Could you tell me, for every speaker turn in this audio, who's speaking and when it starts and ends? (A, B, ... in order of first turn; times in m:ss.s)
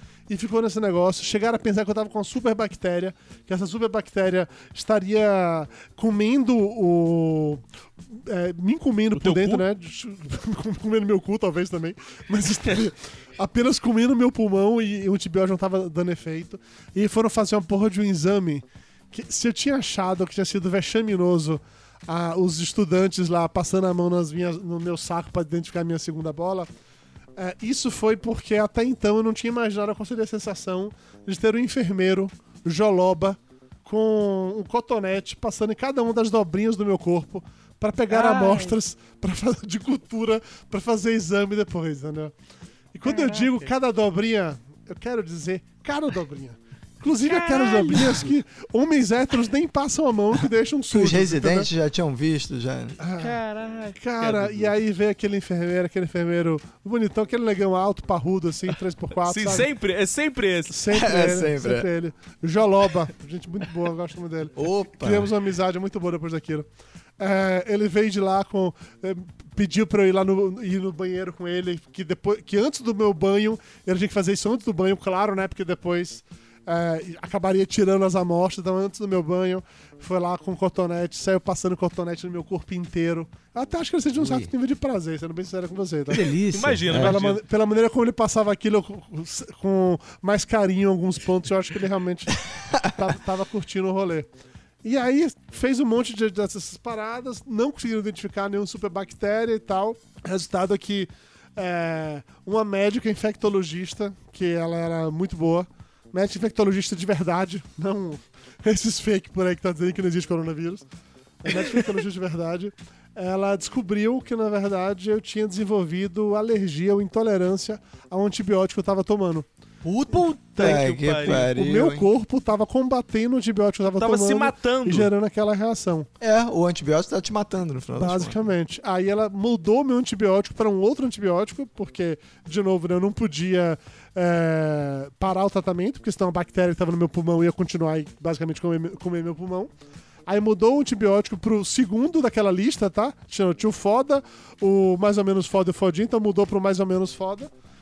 0:00.3-0:26.7 A
0:09.2-0:09.6 B
0:27.4-0:42.3 A
0:38.1-0:38.8 B
0:42.9-0:51.7 A
0:43.0-0:43.7 B
0:47.3-0:48.3 B
0:50.9-0:53.0 C
0:53.0-0:53.4 A
0:53.2-0:54.7 B
0:54.0-0:59.7 A
0:59.2-1:00.8 B
1:00.7-1:06.7 A
1:00.9-1:01.9 C
1:04.6-1:05.3 C
1:07.2-1:26.3 A
1:24.2-1:24.5 C
1:26.1-1:27.2 C
1:26.5-1:27.4 B
1:26.9-1:34.3 A
1:34.8-1:50.9 A
1:51.4-1:59.5 A
1:59.8-2:02.1 C
2:00.1-2:01.5 B
2:00.2-2:06.1 A
2:04.0-2:05.1 B
2:06.2-2:08.4 C
2:08.0-2:19.7 A
2:20.3-2:27.5 A